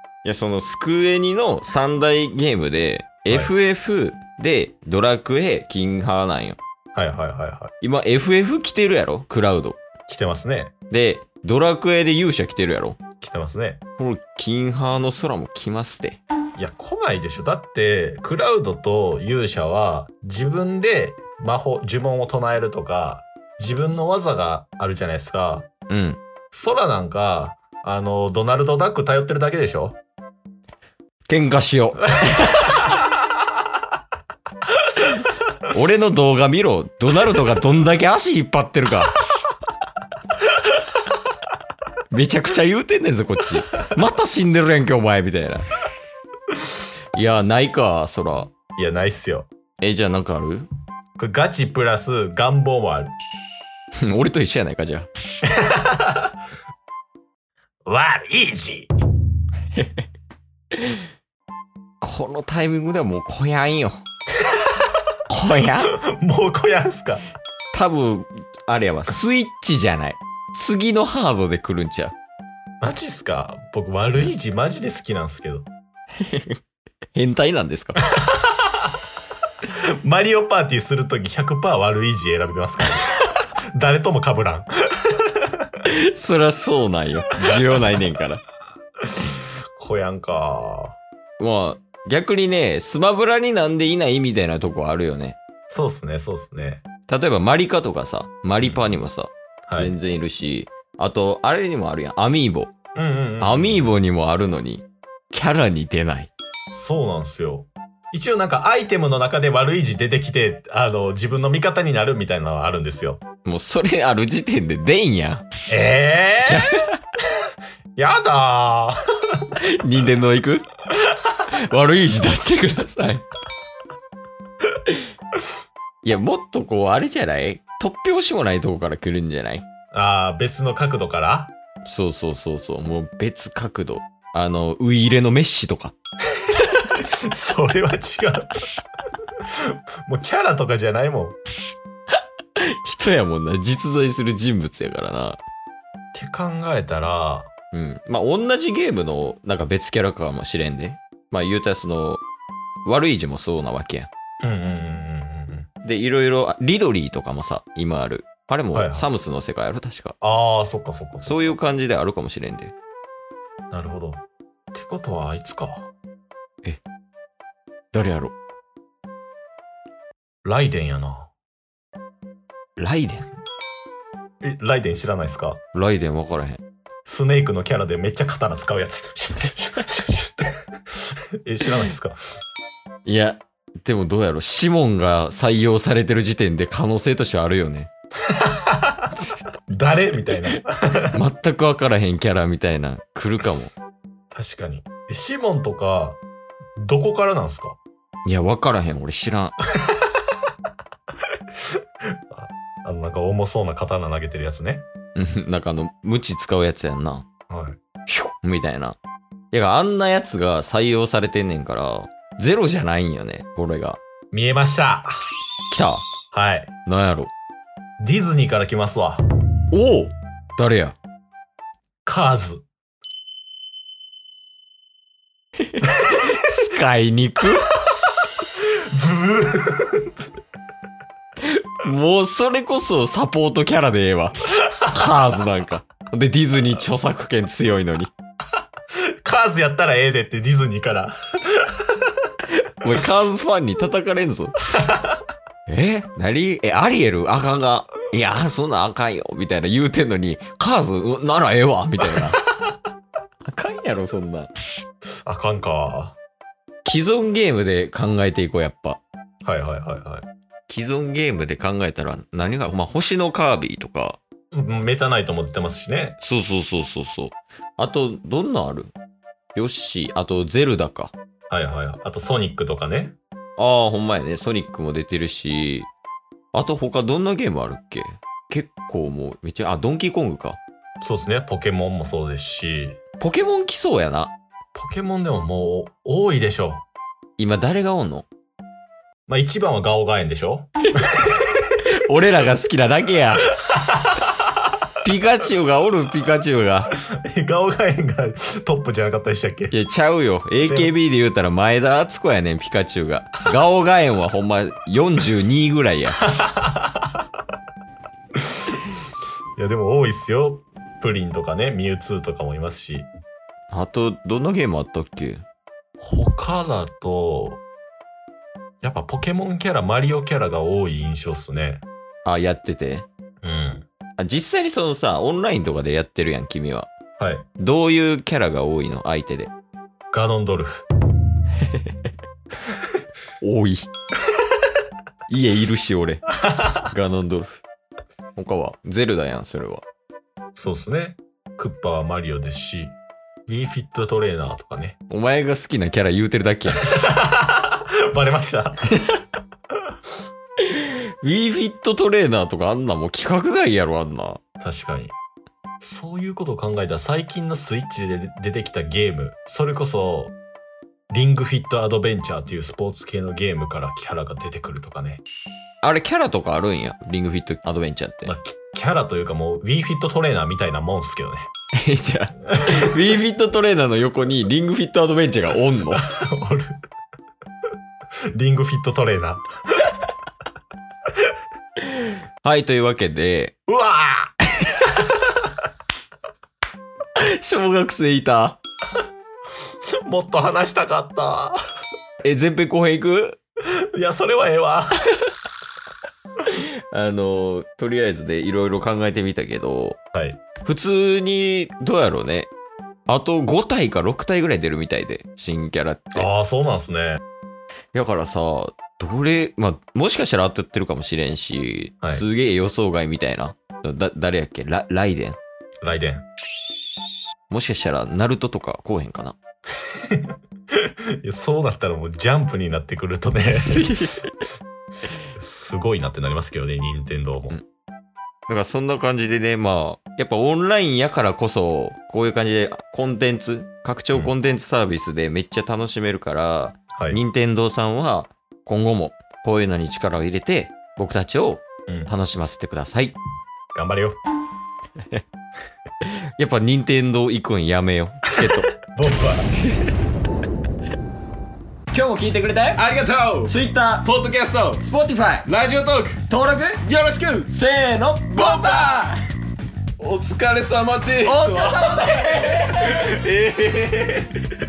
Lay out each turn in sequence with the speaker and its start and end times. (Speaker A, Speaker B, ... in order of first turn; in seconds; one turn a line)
Speaker A: 0.2-6.6
Speaker B: 3.3-3.5
Speaker B: 6.9-7.7
Speaker A: 7.8-9.8
Speaker B: 10.1-10.7
Speaker A: 10.9-13.0
Speaker B: 13.2-13.8
Speaker A: 14.0-16.2
Speaker B: 16.6-25.7
Speaker A: 25.9-26.2
Speaker B: 26.5-30.0
Speaker A: 31.3-32.9
Speaker A: 35.7-39.1
Speaker A: 42.1-45.6
Speaker A: 47.1-48.5
Speaker B: 48.8-49.5
Speaker A: 49.8-50.7
Speaker B: 51.2-53.1
Speaker A: 54.0-55.1
Speaker B: 55.5-56.3
Speaker B: 57.9-58.9
Speaker A: 59.8-60.0
Speaker A: 60.7-61.0
Speaker A: 62.0-64.0
Speaker A: 65.3-66.0
Speaker B: 65.8-67.2
Speaker A: 67.7-72.1
Speaker B: 72.8-75.7
Speaker A: 76.2-76.6
Speaker A: 77.1-78.1
Speaker B: 78.1-78.9
Speaker B: 79.6-85.7
Speaker A: 85.8-88.4
Speaker B: 89.1-91.0
Speaker A: 91.4-95.4
Speaker B: 95.7-96.8
Speaker A: 97.1-102.7
Speaker B: 98.6-98.9
Speaker B: 99.7-100.0
Speaker B: 102.9-103.9
Speaker A: 103.4-106.3
Speaker B: 106.7-113.2
Speaker A: 113.4-115.5
Speaker B: 115.7-116.9
Speaker A: 116.5-117.0
Speaker B: 118.0-119.5
Speaker A: 119.6-120.7
Speaker A: 121.4-123.2
Speaker A: 126.0-129.6
Speaker B: 129.9-131.5
Speaker A: 131.8-135.9
Speaker B: 136.6-138.7
Speaker B: 139.4-141.4
Speaker A: 142.6-145.4
Speaker B: 146.1-147.5
Speaker A: 147.7-152.2
Speaker A: 152.8-154.1
Speaker B: 154.4-155.7
Speaker A: 155.8-160.2
Speaker B: 158.7-159.1
Speaker B: 160.2-161.4
Speaker A: 161.2-162.7
Speaker B: 163.7-165.9
Speaker A: 167.9-168.3
Speaker B: 170.4-171.3
Speaker A: 172.8-173.3
Speaker B: 174.4-175.6
Speaker A: 175.7-176.6
Speaker B: 177.0-182.2
Speaker A: 183.1-187.9
Speaker B: 188.3-189.1
Speaker B: 189.7-191.2
Speaker A: 191.1-193.7
Speaker B: 194.3-196.2
Speaker B: 196.8-197.8
Speaker A: 198.2-199.5
Speaker B: 202.3-204.8
Speaker A: 205.2-207.2
Speaker B: 207.5-207.8
Speaker A: 208.1-209.0
Speaker A: 209.5-214.0
Speaker B: 214.3-215.2
Speaker A: 215.7-216.1
Speaker B: 216.3-216.7
Speaker A: 216.8-217.3
Speaker B: 218.0-219.2
Speaker A: 219.7-221.0
Speaker B: 222.1-222.7
Speaker A: 225.7-227.9
Speaker B: 228.6-230.3
Speaker A: 231.4-238.1
Speaker B: 239.2-242.1
Speaker A: 242.5-244.6
Speaker B: 244.8-245.2
Speaker A: 245.7-252.4
Speaker A: 253.4-254.5
Speaker B: 255.2-256.1
Speaker A: 256.8-259.0
Speaker B: 259.4-260.2
Speaker A: 260.7-264.2
Speaker B: 264.5-266.2
Speaker A: 266.2-268.9
Speaker A: 269.5-271.1
Speaker B: 271.5-273.2
Speaker A: 273.6-275.9
Speaker A: 276.5-280.6
Speaker B: 281.0-283.0
Speaker A: 283.2-284.3
Speaker B: 284.7-286.8
Speaker A: 287.4-288.3
Speaker B: 289.3-291.7
Speaker A: 291.8-293.5
Speaker B: 293.7-294.4
Speaker A: 295.0-296.9
Speaker B: 297.1-299.8
Speaker A: 299.7-306.2
Speaker B: 300.6-301.0
Speaker B: 306.4-306.9
Speaker B: 308.4-308.8
Speaker B: 309.6-313.1
Speaker A: 313.7-315.4
Speaker B: 316.0-317.6
Speaker B: 318.8-321.8
Speaker A: 322.2-323.1
Speaker B: 323.4-323.9
Speaker A: 324.2-326.9
Speaker B: 327.2-327.5
Speaker A: 327.6-329.5
Speaker B: 330.1-330.9
Speaker A: 331.6-331.9
Speaker A: 333.4-333.9
Speaker A: 335.3-337.6
Speaker B: 336.4-336.8
Speaker A: 338.4-339.8
Speaker B: 340.6-342.9
Speaker B: 343.5-344.9
Speaker A: 345.1-347.0
Speaker B: 346.8-348.9
Speaker A: 350.6-354.4
Speaker B: 354.6-355.1
Speaker B: 355.8-360.4
Speaker B: 361.1-365.2
Speaker A: 365.8-368.3
Speaker B: 368.2-371.5
Speaker A: 371.8-376.1
Speaker B: 372.5-373.2
Speaker B: 375.9-376.8
Speaker B: 378.3-379.4
Speaker A: 381.8-383.5
Speaker B: 383.7-385.5
Speaker A: 387.1-388.6
Speaker B: 390.0-391.6
Speaker A: 392.2-393.4
Speaker B: 393.9-395.1
Speaker A: 396.4-400.0
Speaker B: 400.1-400.4
Speaker A: 400.6-402.5
Speaker A: 403.1-406.3
Speaker B: 406.1-407.2
Speaker A: 407.9-415.4
Speaker B: 415.8-416.2
Speaker A: 417.5-419.4
Speaker B: 419.8-424.1
Speaker A: 423.7-424.3
Speaker B: 425.3-427.6
Speaker A: 428.5-443.2
Speaker B: 436.9-437.2
Speaker B: 443.7-444.2
Speaker A: 446.0-448.7
Speaker B: 448.3-449.5
Speaker A: 451.9-452.9
Speaker B: 452.8-453.5
Speaker A: 453.4-455.5
Speaker B: 455.5-456.2
Speaker A: 456.2-459.1
Speaker B: 458.4-459.0
Speaker B: 460.0-463.3
Speaker A: 461.2-464.3